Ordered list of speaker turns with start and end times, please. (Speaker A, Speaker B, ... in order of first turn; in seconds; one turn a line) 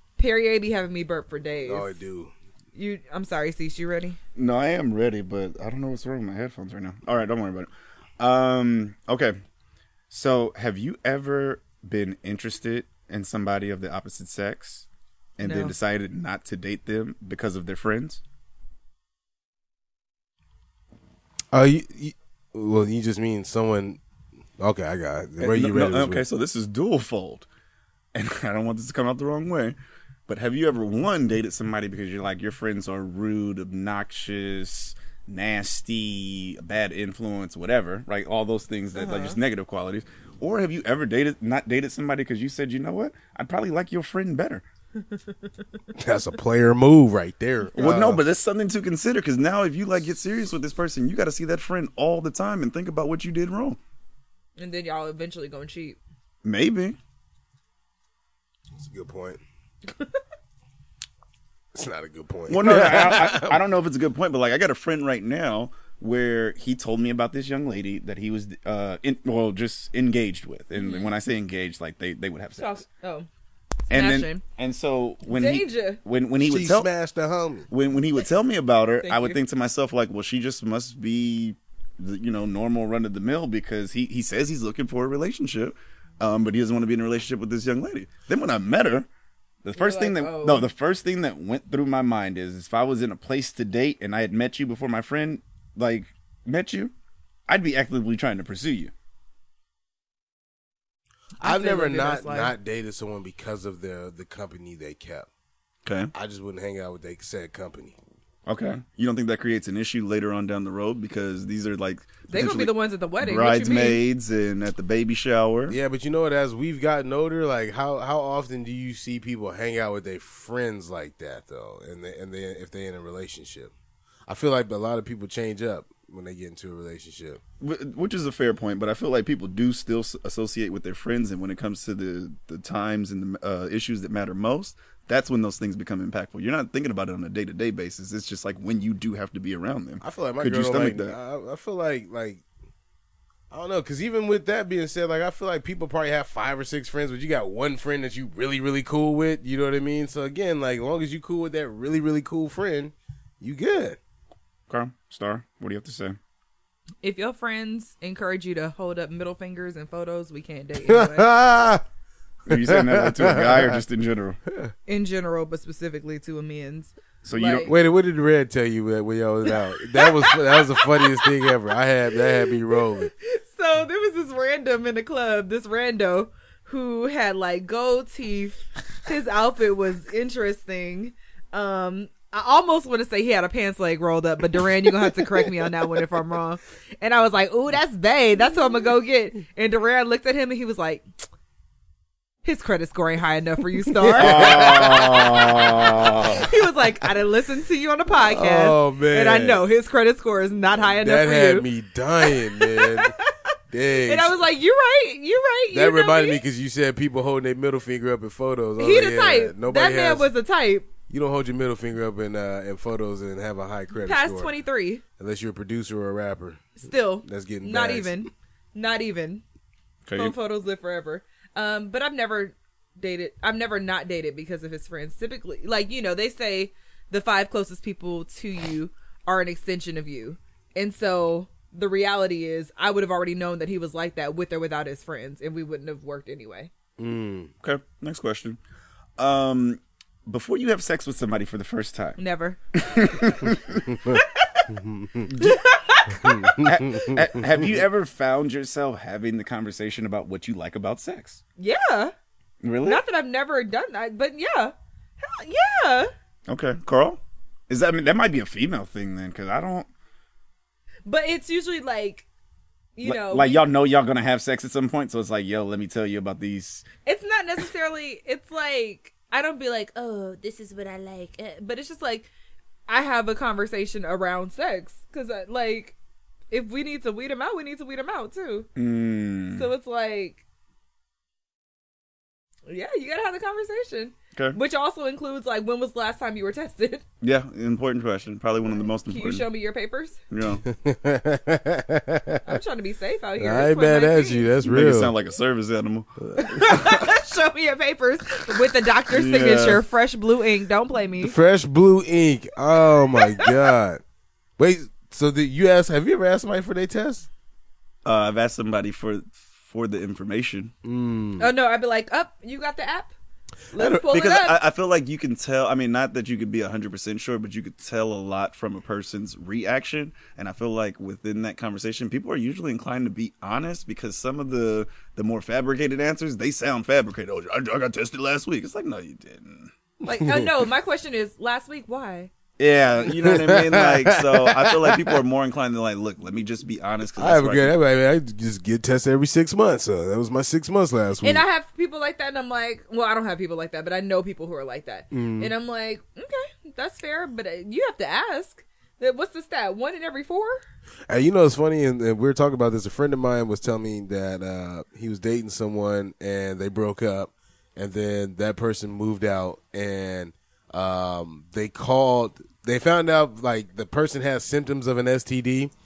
Speaker A: 0.2-2.0
Speaker B: 1.7-2.3
Speaker A: 2.8-4.2
Speaker C: 4.4-9.4
Speaker C: 10.1-18.2
Speaker A: 15.4-15.7
Speaker B: 21.5-24.0
Speaker B: 24.6-26.2
Speaker C: 25.4-27.5
Speaker C: 28.1-44.6
Speaker A: 39.0-39.4
Speaker B: 46.0-48.2
Speaker C: 47.8-53.8
Speaker A: 54.6-56.0
Speaker C: 56.4-57.0
Speaker B: 58.8-59.4
Speaker B: 61.8-63.6
Speaker C: 62.5-72.8
Speaker A: 70.8-71.1
Speaker A: 72.6-73.3
Speaker A: 73.9-74.4
Speaker C: 73.9-76.9
Speaker A: 75.3-76.0
Speaker B: 76.4-77.7
Speaker C: 77.7-89.1
Speaker A: 79.0-79.4
Speaker C: 89.6-96.9
Speaker A: 89.8-90.7
Speaker C: 97.5-98.9
Speaker A: 101.4-102.5
Speaker B: 101.4-105.3
Speaker C: 105.8-106.1
Speaker B: 106.1-108.0
Speaker C: 108.5-115.8
Speaker A: 112.3-114.0
Speaker B: 115.7-123.7
Speaker B: 124.3-127.4
Speaker C: 127.6-141.2
Speaker B: 140.0-142.4
Speaker B: 143.5-154.0
Speaker C: 154.7-156.2
Speaker A: 157.0-161.3
Speaker B: 160.9-161.8
Speaker C: 162.5-164.4
Speaker B: 162.5-163.8
Speaker A: 164.9-167.7
Speaker C: 167.2-167.7
Speaker B: 167.7-173.1
Speaker A: 169.5-171.5
Speaker A: 172.5-191.1
Speaker A: 192.4-201.7
Speaker B: 194.0-195.4
Speaker C: 194.2-196.5
Speaker B: 198.3-199.6
Speaker B: 200.9-203.1
Speaker A: 202.2-203.3
Speaker B: 203.7-204.3
Speaker A: 204.1-206.4
Speaker B: 205.7-210.3
Speaker A: 208.8-210.9
Speaker B: 211.1-214.5
Speaker A: 214.0-215.0
Speaker B: 215.2-218.3
Speaker A: 216.8-219.4
Speaker C: 220.1-220.3
Speaker A: 220.1-236.7
Speaker B: 237.0-237.5
Speaker C: 237.6-238.6
Speaker C: 239.2-242.2
Speaker A: 242.2-243.3
Speaker C: 242.8-243.8
Speaker B: 243.9-245.3
Speaker A: 244.2-244.6
Speaker C: 245.3-245.6
Speaker A: 245.4-246.6
Speaker B: 246.2-247.2
Speaker C: 246.6-251.4
Speaker A: 251.6-252.1
Speaker C: 252.6-253.0
Speaker A: 252.8-256.1
Speaker C: 256.5-259.9
Speaker A: 261.1-262.2
Speaker A: 263.0-263.6
Speaker C: 263.0-266.9
Speaker A: 267.1-272.3
Speaker A: 272.9-275.9
Speaker A: 276.5-278.7
Speaker C: 278.8-279.7
Speaker A: 279.5-280.4
Speaker A: 282.7-287.0
Speaker C: 284.4-284.6
Speaker C: 287.2-289.4
Speaker A: 289.1-290.2
Speaker C: 290.3-290.6
Speaker B: 290.7-292.6
Speaker A: 292.5-294.5
Speaker B: 293.4-295.1
Speaker C: 294.6-297.0
Speaker B: 296.2-296.9
Speaker A: 296.4-301.4
Speaker C: 299.1-299.8
Speaker B: 301.2-304.0
Speaker A: 303.0-303.6
Speaker B: 304.6-307.3
Speaker C: 308.1-310.7
Speaker B: 310.8-311.5
Speaker A: 311.4-313.1
Speaker A: 313.7-314.6
Speaker C: 313.8-329.7
Speaker A: 330.1-332.3
Speaker B: 330.2-330.4
Speaker C: 332.6-337.8
Speaker B: 333.2-335.1
Speaker B: 337.2-341.4
Speaker A: 341.2-350.6
Speaker B: 345.1-345.5
Speaker B: 351.1-365.7